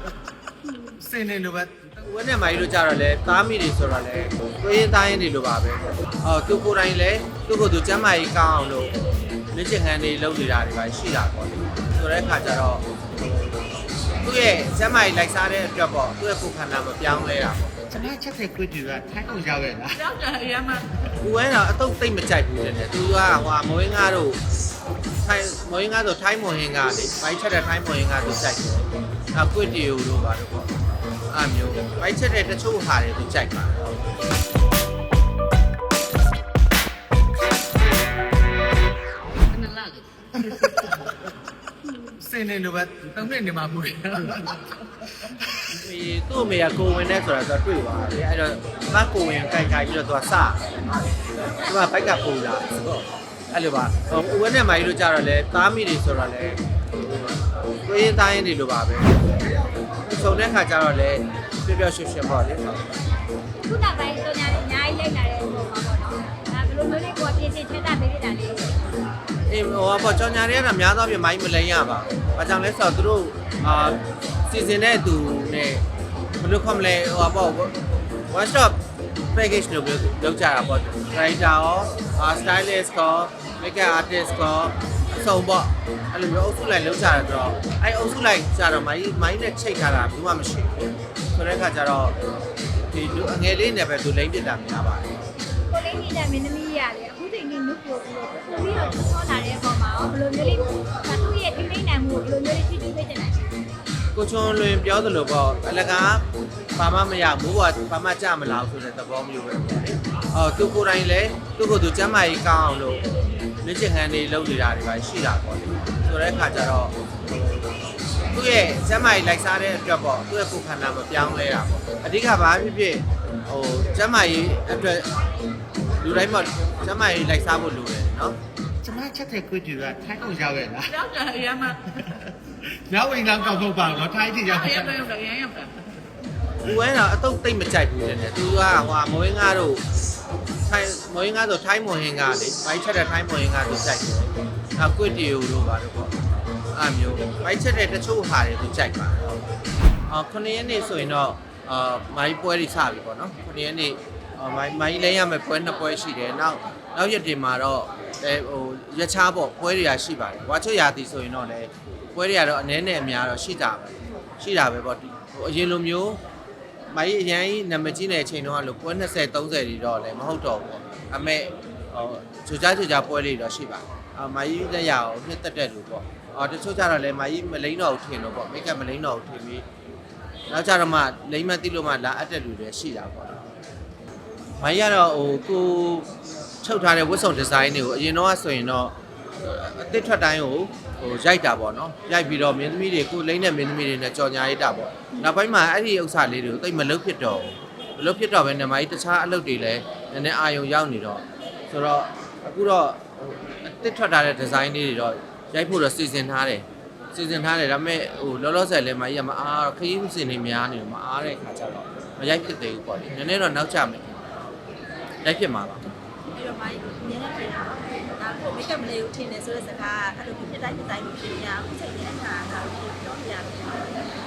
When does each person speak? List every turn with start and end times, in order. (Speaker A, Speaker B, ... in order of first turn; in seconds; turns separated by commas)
Speaker A: 0.9-2.0, Speaker B: 2.0-13.6, Speaker B: 14.2-18.0, Speaker A: 17.9-20.1, Speaker C: 20.1-20.8, Speaker B: 21.2-24.4, Speaker B: 25.2-30.7, Speaker B: 31.3-34.0, Speaker A: 39.5-41.1, Speaker A: 42.0-45.7, Speaker B: 45.7-59.3, Speaker B: 60.1-62.9, Speaker D: 63.6-68.8, Speaker B: 69.5-75.8, Speaker B: 76.4-92.2, Speaker B: 92.9-95.2, Speaker D: 95.7-103.5, Speaker B: 104.1-117.7, Speaker B: 118.3-125.2, Speaker B: 125.9-128.4, Speaker A: 128.8-131.0, Speaker C: 131.0-131.7, Speaker A: 131.8-135.0, Speaker C: 135.0-135.7, Speaker B: 136.6-139.8, Speaker B: 140.7-146.2, Speaker B: 146.7-149.4, Speaker B: 150.1-166.2, Speaker B: 166.9-179.7, Speaker B: 180.5-183.4, Speaker B: 184.6-186.1, Speaker B: 186.6-214.2, Speaker B: 215.2-215.8, Speaker E: 216.3-224.0